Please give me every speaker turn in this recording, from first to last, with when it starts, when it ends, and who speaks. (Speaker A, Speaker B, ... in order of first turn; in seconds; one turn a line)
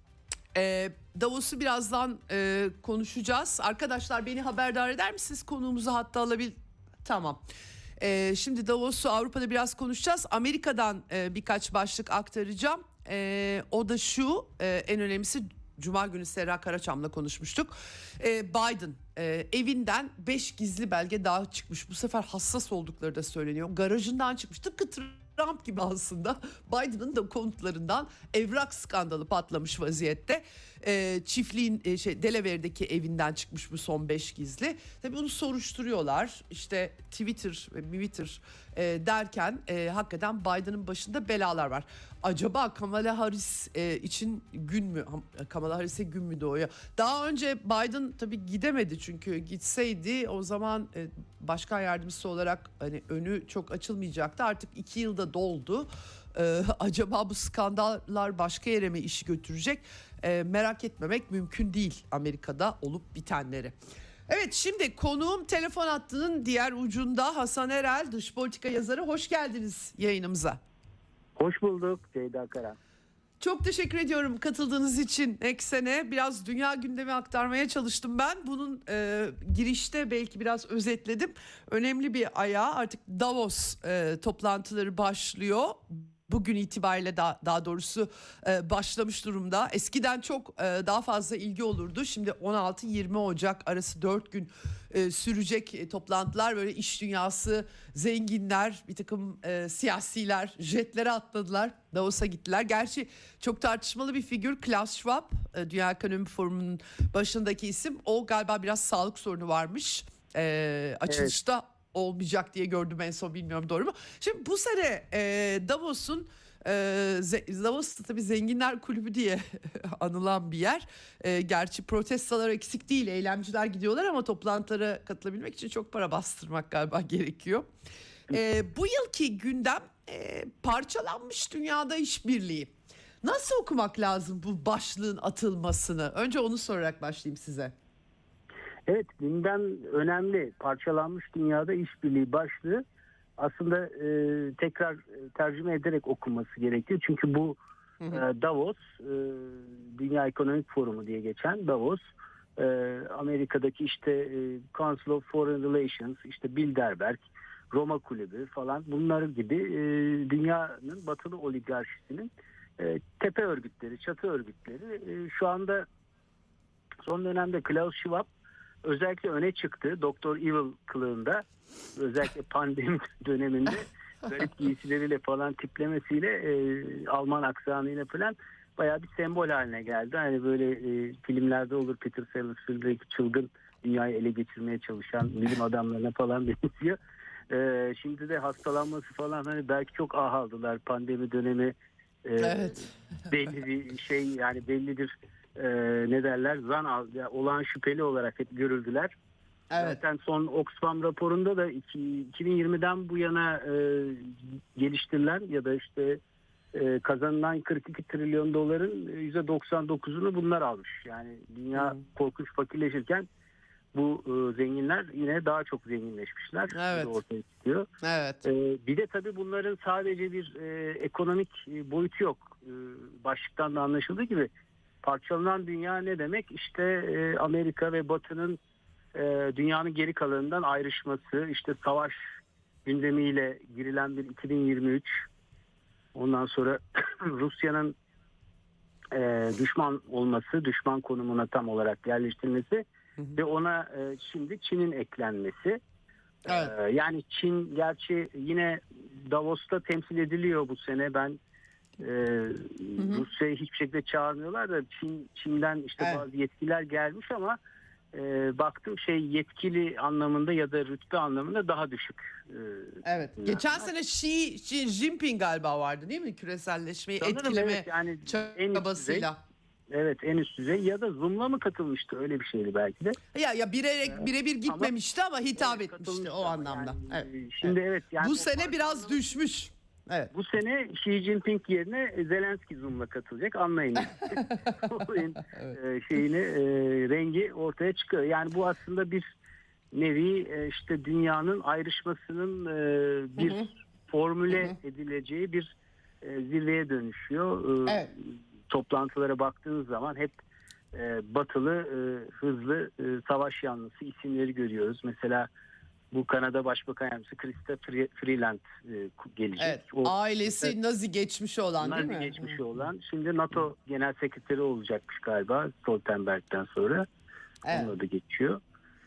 Speaker A: 0.5-7.4
Speaker A: 8.0-63.7
Speaker A: 64.3-70.6
Speaker B: 71.4-72.8
Speaker A: 73.4-127.7
Speaker B: 111.1-111.3
Speaker A: 128.3-137.7
Speaker B: 138.9-142.8
Speaker B: 143.4-147.6
Speaker B: 148.1-152.0
Speaker B: 152.6-165.9
Speaker B: 167.0-168.3
Speaker B: 168.8-171.4
Speaker B: 171.9-187.0
Speaker B: 187.5-191.7
Speaker B: 192.2-199.1
Speaker A: 192.4-192.8
Speaker A: 199.7-200.0
Speaker B: 199.8-206.2
Speaker B: 206.7-213.2
Speaker B: 213.9-217.9
Speaker A: 216.7-217.1
Speaker A: 218.0-218.4
Speaker B: 218.4-224.5
Speaker B: 225.0-228.6
Speaker B: 229.1-232.2
Speaker B: 232.8-235.2
Speaker B: 236.1-237.9
Speaker B: 239.1-242.8
Speaker B: 243.3-245.8
Speaker A: 246.5-246.7
Speaker B: 246.5-251.4
Speaker B: 252.0-257.6
Speaker A: 253.0-253.2
Speaker A: 256.0-256.2
Speaker B: 258.1-263.8
Speaker A: 263.0-269.4
Speaker B: 267.2-269.3
Speaker B: 269.9-273.2
Speaker A: 273.3-280.3
Speaker B: 274.1-274.9
Speaker B: 275.6-279.2
Speaker B: 280.3-289.2
Speaker A: 284.3-285.8
Speaker B: 289.9-295.7
Speaker A: 293.4-293.7
Speaker B: 296.2-298.1
Speaker B: 298.7-300.3
Speaker B: 300.9-305.5
Speaker B: 306.1-310.7
Speaker A: 309.6-312.6
Speaker B: 311.8-317.1
Speaker A: 317.6-317.9
Speaker B: 317.7-318.6